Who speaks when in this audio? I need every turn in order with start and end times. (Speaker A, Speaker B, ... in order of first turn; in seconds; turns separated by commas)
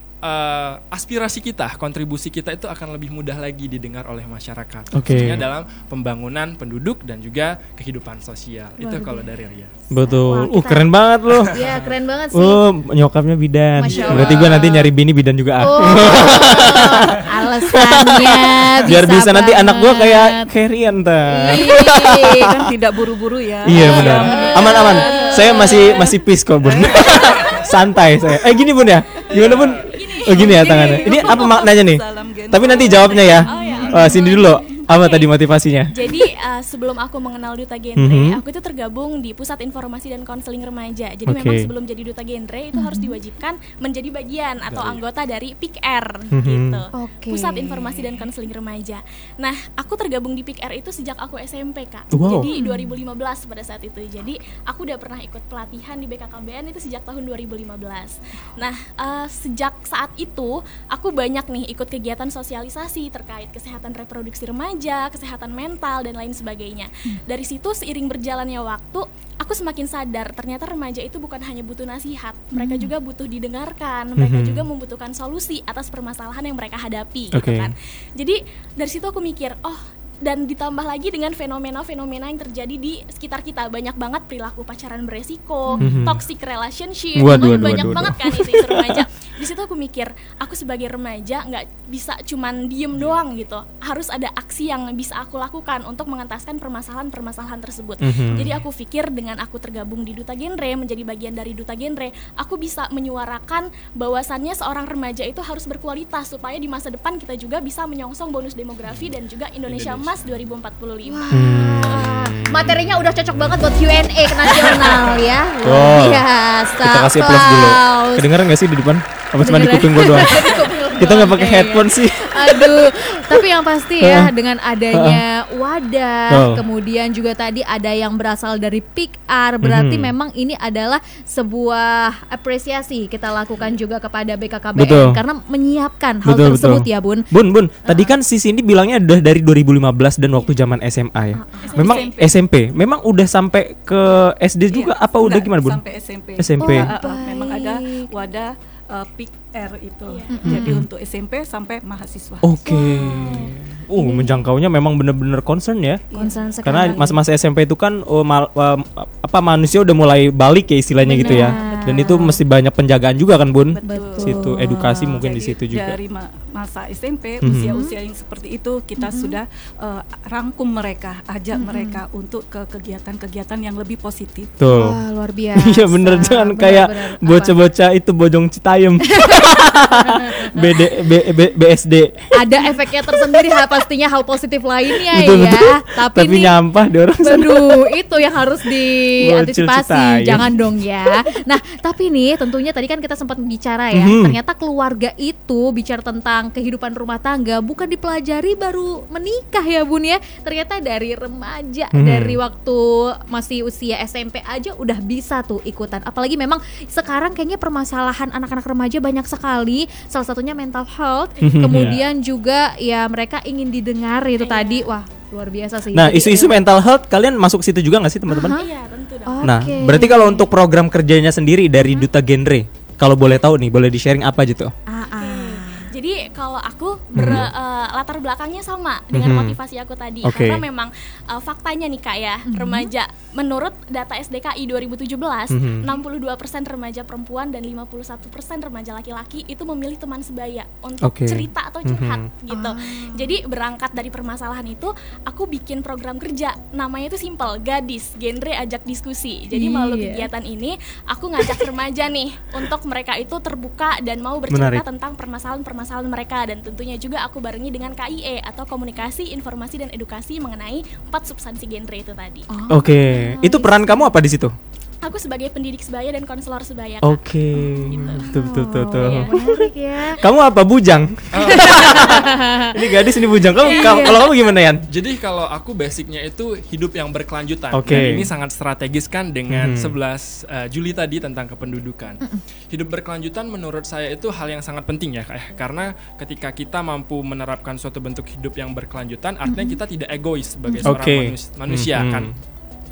Speaker A: 0.2-9.8, Speaker B: 4.9-5.4, Speaker C: 8.8-9.3, Speaker B: 9.9-11.6, Speaker C: 10.0-10.9, Speaker A: 11.3-11.9, Speaker C: 11.5-12.6, Speaker B: 12.3-17.2, Speaker C: 13.8-14.9, Speaker A: 13.8-14.7, Speaker C: 15.6-20.5, Speaker B: 17.7-22.4, Speaker C: 21.3-22.5, Speaker D: 21.5-27.4, Speaker B: 23.6-35.9, Speaker C: 23.7-26.0, Speaker A: 27.3-27.6, Speaker A: 29.3-29.9, Speaker E: 29.9-31.5, Speaker D: 30.3-34.5, Speaker E: 32.6-35.3, Speaker E: 35.9-111.3, Speaker B: 38.0-38.4, Speaker B: 41.3-41.7, Speaker C: 42.7-43.1, Speaker A: 44.6-45.1, Speaker B: 46.3-46.8, Speaker C: 46.9-48.1, Speaker B: 52.1-52.5, Speaker C: 52.5-52.9, Speaker C: 72.5-72.9, Speaker B: 74.2-74.7, Speaker B: 77.3-77.7, Speaker B: 85.8-86.2, Speaker B: 87.2-89.0, Speaker C: 87.3-88.1, Speaker A: 92.9-93.2, Speaker B: 98.0-98.5, Speaker A: 109.6-110.5, Speaker C: 111.1-118.3, Speaker B: 111.3-112.9, Speaker A: 114.6-115.2, Speaker B: 115.6-116.2, Speaker B: 116.8-122.8, Speaker C: 119.4-137.2, Speaker B: 124.0-124.3, Speaker B: 124.9-125.2, Speaker B: 126.3-126.6, Speaker B: 129.6-130.1, Speaker B: 134.7-135.2, Speaker B: 136.2-145.8, Speaker C: 137.8-138.1, Speaker C: 141.3-142.0, Speaker D: 141.6-142.4, Speaker D: 144.7-152.5, Speaker B: 146.4-146.9, Speaker C: 146.6-148.1, Speaker E: 150.1-150.4, Speaker C: 150.3-150.8, Speaker B: 150.4-150.8, Speaker B: 152.4-156.0, Speaker C: 152.7-154.5, Speaker D: 156.1-156.4, Speaker C: 156.1-157.2, Speaker B: 156.6-166.0, Speaker C: 161.0-162.4, Speaker D: 161.3-161.8, Speaker D: 163.7-174.5, Speaker C: 163.8-165.1, Speaker B: 167.4-167.7, Speaker C: 167.5-167.9, Speaker C: 169.0-169.4, Speaker C: 171.5-172.0, Speaker B: 174.6-175.0, Speaker C: 174.7-177.6, Speaker B: 175.6-183.6, Speaker C: 179.1-180.6, Speaker C: 182.3-186.5, Speaker B: 185.1-187.9, Speaker C: 187.2-216.6, Speaker B: 189.2-191.1, Speaker B: 193.9-194.4, Speaker B: 201.9-202.4, Speaker E: 211.3-211.6, Speaker B: 211.4-212.0, Speaker A: 211.7-212.0, Speaker E: 214.4-214.8, Speaker B: 215.9-218.6, Speaker C: 218.3-218.6, Speaker E: 218.5-219.4, Speaker C: 219.3-220.5, Speaker B: 219.4-224.7, Speaker C: 224.9-225.9, Speaker E: 225.1-262.4, Speaker B: 227.1-227.5, Speaker B: 229.1-229.6, Speaker B: 230.2-230.6, Speaker C: 232.4-232.9, Speaker B: 235.5-235.9, Speaker B: 241.0-242.2, Speaker C: 242.5-243.3, Speaker C: 249.5-250.2, Speaker B: 254.5-254.8, Speaker C: 262.5-264.1, Speaker B: 262.7-264.5, Speaker E: 265.0-268.2, Speaker B: 267.0-269.7, Speaker C: 267.5-270.2, Speaker E: 269.0-269.3, Speaker B: 270.2-274.8, Speaker A: 271.3-272.4, Speaker C: 271.5-272.8, Speaker C: 273.6-274.2, Speaker A: 273.7-274.0, Speaker A: 274.9-292.3, Speaker B: 277.7-278.3, Speaker B: 279.5-279.9, Speaker C: 289.4-289.8, Speaker B: 290.8-292.3